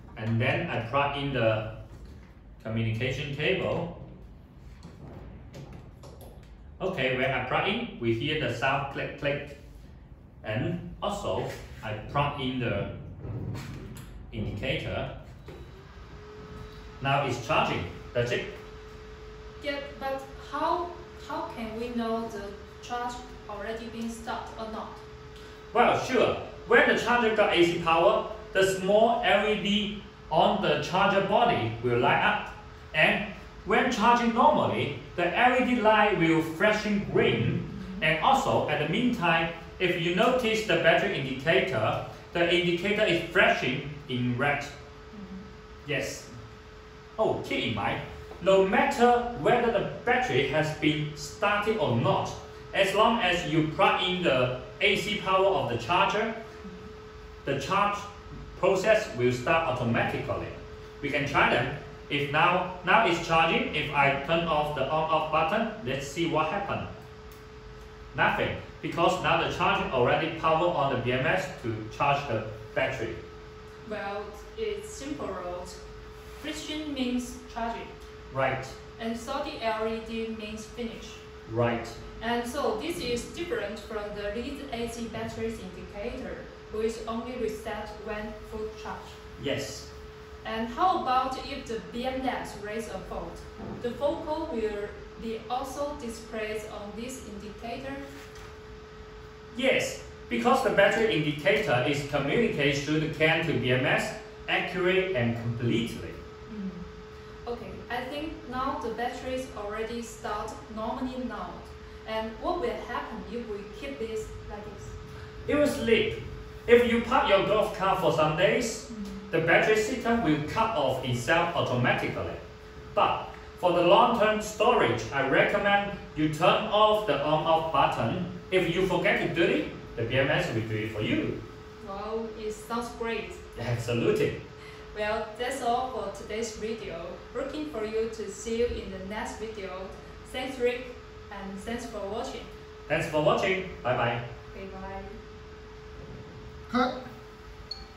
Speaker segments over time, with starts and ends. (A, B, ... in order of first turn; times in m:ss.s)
0:00.2-0:01.7 A
0:02.6-0:03.9 A
0:06.8-0:09.6 A
0:10.4-0:12.9 A
0:14.3-0:15.1 A
0:17.0-0:18.5 A
0:19.6-0:25.0 B
0:25.7-0:44.7 A
0:37.7-0:38.1 B
0:45.1-0:45.4 B
0:45.8-0:46.3 A
0:47.2-0:56.3 A
0:57.4-1:06.9 A
1:08.1-1:13.2 A
1:13.8-1:15.8 B
1:16.4-1:17.9 B
1:18.3-1:18.8 A
1:19.0-1:21.2 B
1:21.5-1:22.0 A
1:22.2-1:29.2 B
1:29.4-1:29.9 A
1:30.4-1:38.1 B
1:39.5-1:46.2 A
1:46.5-1:46.9 B
1:47.5-1:54.9 B
1:55.5-2:02.4 A
1:58.9-1:59.2 B
2:02.9-2:11.4 A
2:11.8-2:13.4 B
2:13.6-2:14.4 A
2:14.9-2:22.5 B
2:22.9-2:24.2 A
2:24.5-2:25.2 B